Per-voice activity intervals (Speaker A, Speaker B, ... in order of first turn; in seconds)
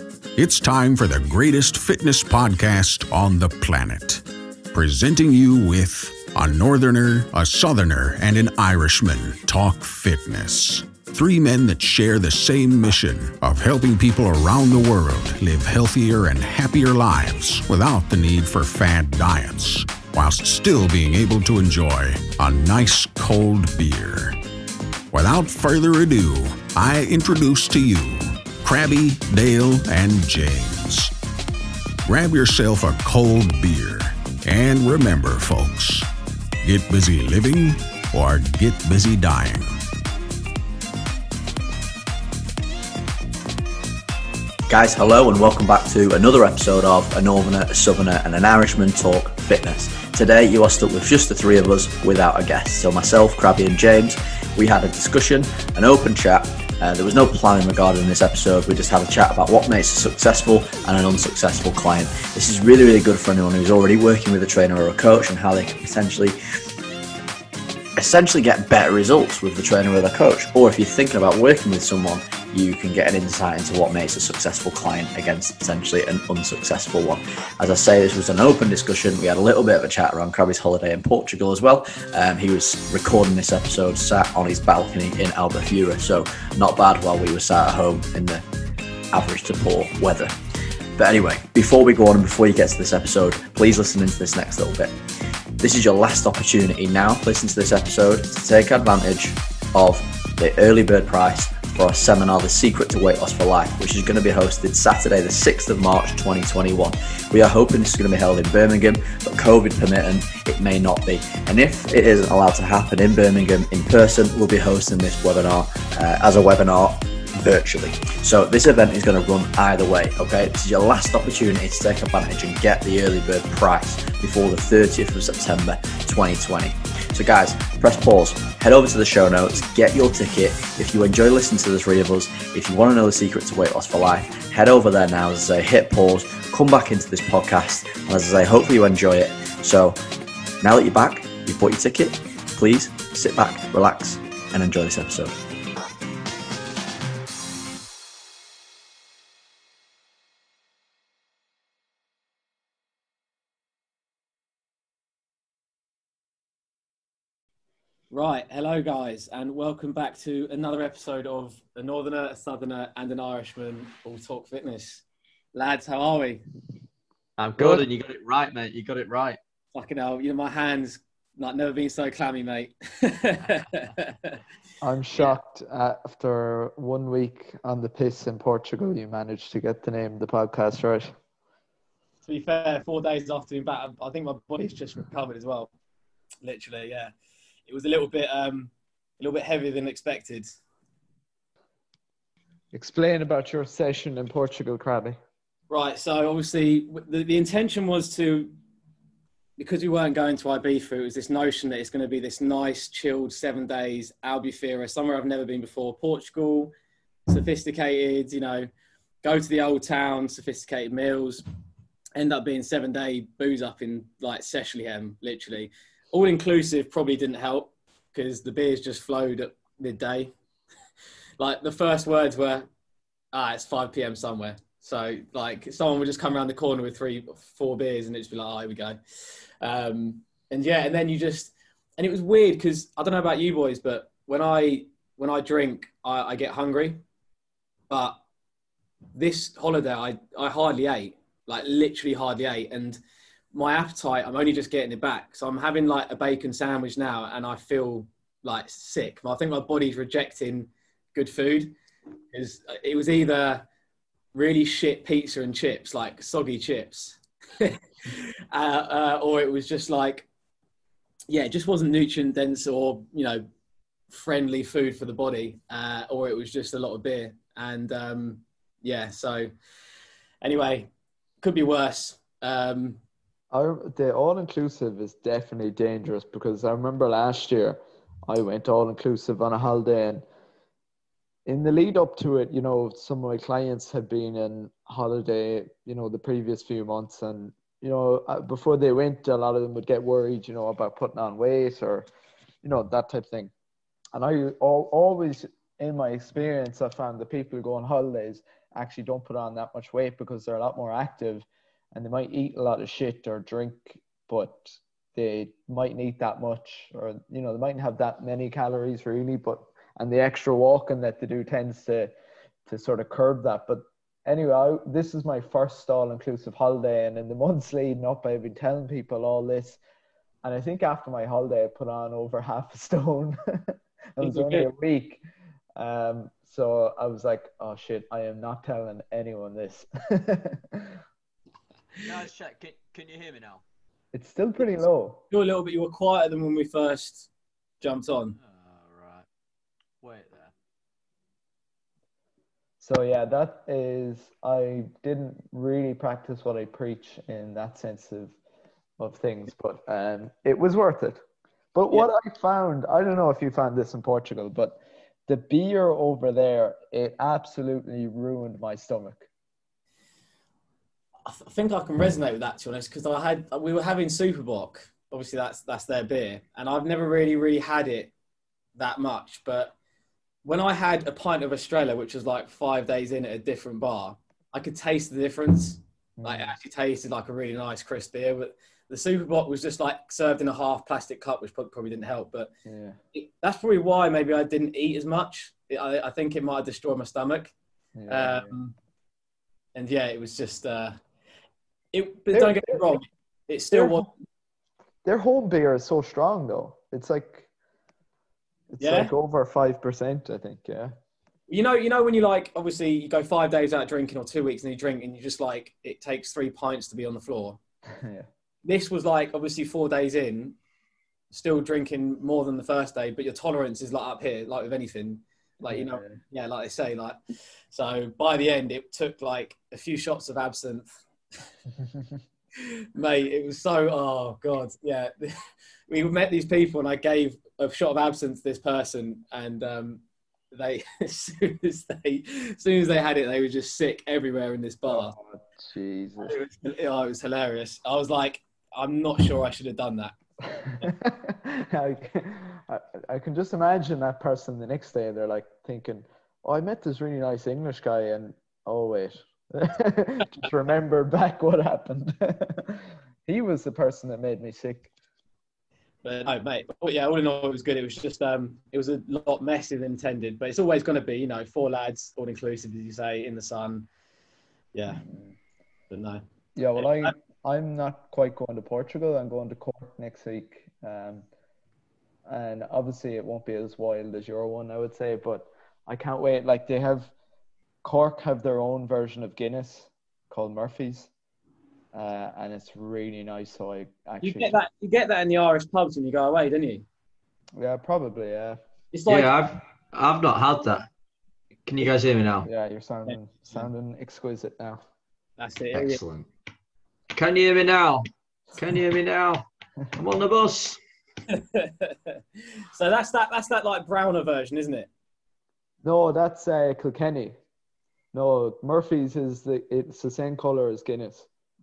Speaker A: 0.4-24.4, 25.1-31.1, 32.1-36.1, 36.6-39.8
Speaker B: 44.7-66.4, 68.0-88.4, 89.1-90.3, 91.0-95.0, 95.6-140.0, 140.6-145.3
Speaker C: 158.1-166.4, 169.7-174.4, 182.2-185.7, 186.4-187.1, 187.7-190.5, 195.7-198.5, 199.6-206.7, 207.3-208.7, 209.2-211.4, 212.2-220.3, 221.4-222.7, 223.3-229.0, 229.6-237.0, 237.9-238.2, 239.2-243.0, 243.5-251.8, 252.3-253.7, 254.3-260.3, 261.3-263.5, 264.1-269.5, 270.4-270.9, 271.4-273.0, 324.2-324.7, 335.3-337.3, 337.8-338.4, 361.3-368.1, 368.8-369.7, 370.4-382.5, 383.1-387.5, 388.1-388.8, 389.8-391.0, 391.9-394.1, 398.8-399.1, 401.5-407.6, 408.6-410.6, 411.3-417.2, 417.7-420.9, 422.6-425.4, 425.9-435.1, 436.2-440.9, 456.0-463.9, 464.7-465.0, 465.9-466.2, 466.8-467.1, 484.2-486.9, 488.9-489.3, 493.1-493.6, 495.4-496.0, 501.3-504.9
Speaker D: 167.4-169.4, 332.0-333.6, 338.4-339.3, 340.0-340.5, 489.1-490.9, 491.7-492.5, 495.7-496.3, 497.1-500.8
Speaker E: 167.6-167.8, 174.8-181.1, 192.7-195.2, 273.5-280.2, 281.5-292.1, 292.6-293.5, 294.1-312.1, 312.7-319.8, 320.4-325.2, 325.8-331.0, 334.1-335.2, 342.8-348.4, 349.0-351.2, 351.8-359.3, 376.2-376.6, 382.7-383.0, 388.0-388.5, 392.3-392.8, 393.7-394.1, 395.1-397.5, 398.7-400.9, 407.9-408.3, 415.7-416.2, 434.9-436.4, 440.8-454.9, 466.6-471.3, 472.3-477.1, 477.8-481.1, 481.9-484.5, 487.6-488.6, 492.5-494.8, 505.8-507.4, 508.1-511.3